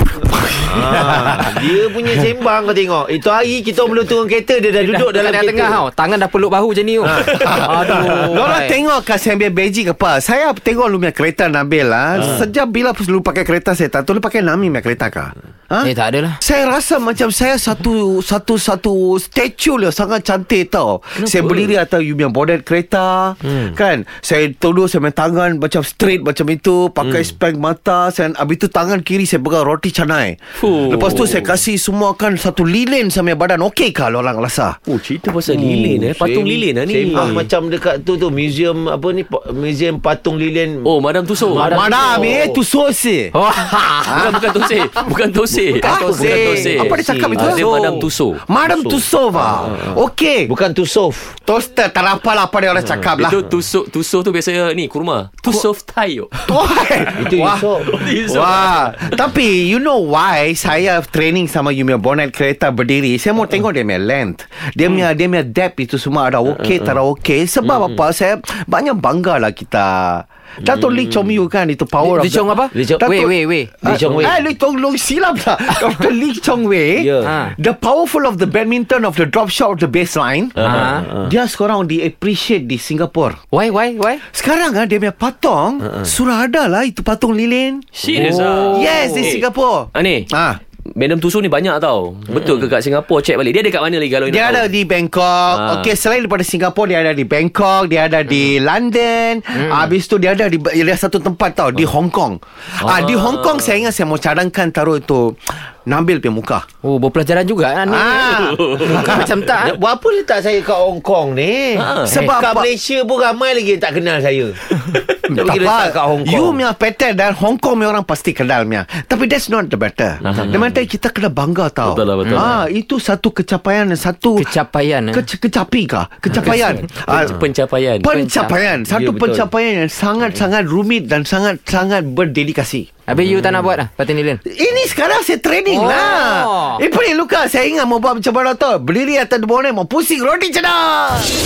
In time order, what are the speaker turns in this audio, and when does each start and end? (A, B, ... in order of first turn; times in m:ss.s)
0:00.4-0:05.8 A
0:00.7-0:01.5 B
0:04.8-0:08.8 C
0:07.0-0:34.8 B
0:15.8-0:16.4 C
0:21.2-0:21.7 D
0:27.0-0:27.3 D
0:30.6-0:31.6 D
0:34.9-0:37.5 D
0:35.5-0:40.9 A
0:40.8-0:41.7 D
0:41.5-0:42.6 A
0:41.6-0:43.3 B
0:41.7-0:42.3 C
0:43.3-0:44.4 C
0:44.0-0:44.5 B
0:44.0-0:48.9 D
0:45.5-0:48.0 A
0:45.7-0:47.7 B
0:48.5-0:50.5 B
0:48.9-0:51.4 A
0:51.5-0:53.4 B
0:53.1-0:56.6 D
0:56.4-1:20.6 B
0:57.2-0:57.9 A
0:57.4-0:59.2 D
1:06.6-1:06.9 A
1:07.6-1:08.0 A
1:10.7-1:11.3 A
1:12.0-1:14.2 C
1:12.7-1:13.2 A
1:13.8-1:14.4 A
1:17.0-1:17.4 A
1:17.2-1:17.5 C
1:20.6-1:21.3 A
1:20.6-1:21.1 C
1:21.2-1:23.4 B
1:23.5-1:24.2 C
1:24.3-1:30.6 B
1:28.0-1:30.3 D
1:28.2-1:29.3 C
1:30.9-1:34.7 D
1:34.3-1:46.6 B
1:35.5-1:35.9 D
1:39.6-1:39.9 C
1:42.8-1:43.8 D
1:46.8-1:49.7 C
1:47.9-1:49.3 B
1:48.3-1:49.2 D
1:49.6-1:54.6 A
1:51.8-1:52.1 D
1:52.0-1:52.7 B
1:55.3-2:04.5 B
1:55.3-1:56.6 A
2:00.2-2:00.7 A
2:00.2-2:00.6 D
2:01.8-2:02.6 D
2:04.4-2:05.3 C
2:05.1-2:07.4 B
2:07.0-2:08.1 D
2:08.0-2:12.9 B
2:08.1-2:08.7 C
2:08.9-2:09.5 A
2:13.1-2:14.4 C
2:13.2-2:13.7 D
2:14.4-2:21.3 B
2:15.7-2:16.8 C